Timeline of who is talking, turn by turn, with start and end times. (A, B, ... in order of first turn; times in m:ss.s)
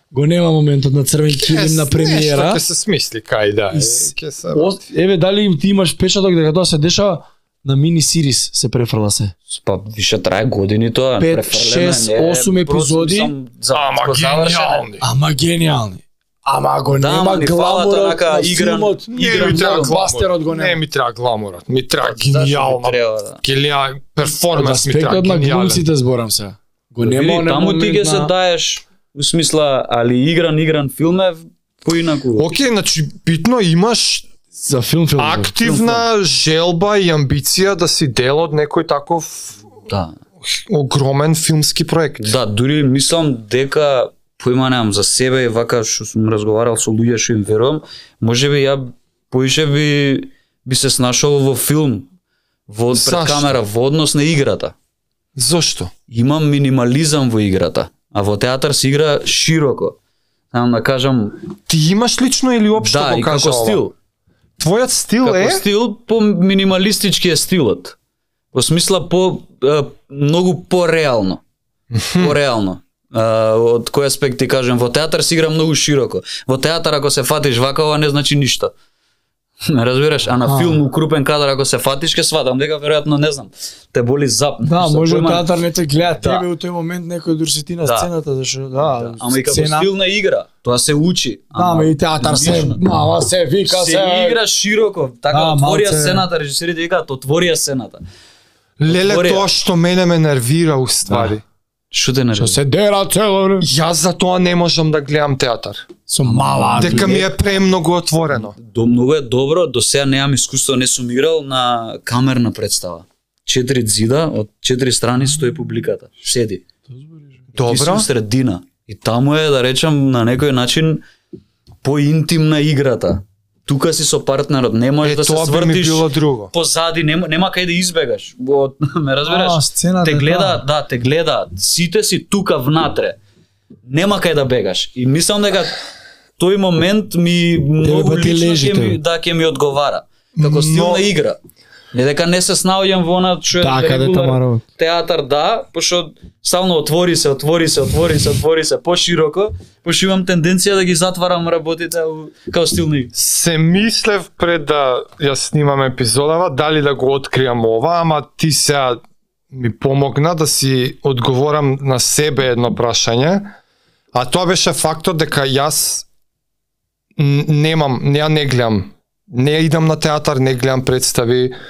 0:00.1-0:02.6 A
0:01.3-0:04.8 B
0:03.7-0:09.3 A
0:09.5-0:14.9 C
0:11.2-0:13.3 A
0:13.7-0:15.1 B
0:15.0-0:20.8 A
0:17.0-0:20.0 C
0:19.1-0:25.8 B
0:22.0-0:23.4 C
0:24.6-0:28.3 A
0:27.0-0:32.5 C
0:32.4-0:34.3 B
0:34.6-0:35.5 A
0:35.2-0:39.6 B
0:35.6-0:36.1 C
0:39.9-0:40.2 C
0:40.5-0:42.3 B
0:42.2-0:52.1 C
0:52.7-0:54.8 C
0:52.9-0:53.5 B
0:55.4-0:55.9 B
0:56.1-1:00.0 C
1:00.5-1:01.4 C
1:01.7-1:03.8 B
1:02.8-1:03.9 C
1:04.6-1:05.6 B
1:05.2-1:08.0 C
1:08.5-1:11.4 C
1:11.9-1:12.4 B
1:12.2-1:18.7 C
1:19.7-1:25.5 C
1:20.4-1:20.8 A
1:24.6-1:29.9 A
1:27.8-1:28.1 C
1:28.9-1:32.8 C
1:31.6-1:34.4 A
1:33.6-1:38.0 C
1:35.3-1:36.3 A
1:38.8-1:41.4 B
1:38.9-1:39.5 C
1:41.9-1:42.6 C
1:42.4-1:43.7 A
1:43.6-1:45.9 B
1:46.1-1:47.2 A
1:46.3-1:47.3 C
1:46.8-1:48.6 B
1:48.6-1:56.6 C
1:56.9-1:57.4 A
1:57.6-1:58.1 B
1:57.6-2:01.0 C
2:01.8-2:13.2 C
2:05.0-2:06.5 B
2:09.3-2:10.6 A
2:13.9-2:15.8 C
2:16.4-2:21.4 C
2:17.8-2:19.0 A
2:20.4-2:21.1 B
2:21.9-2:33.1 C
2:23.6-2:24.6 A
2:33.1-2:39.0 B
2:39.5-2:43.5 B
2:44.1-2:46.1 B
2:47.2-2:51.6 B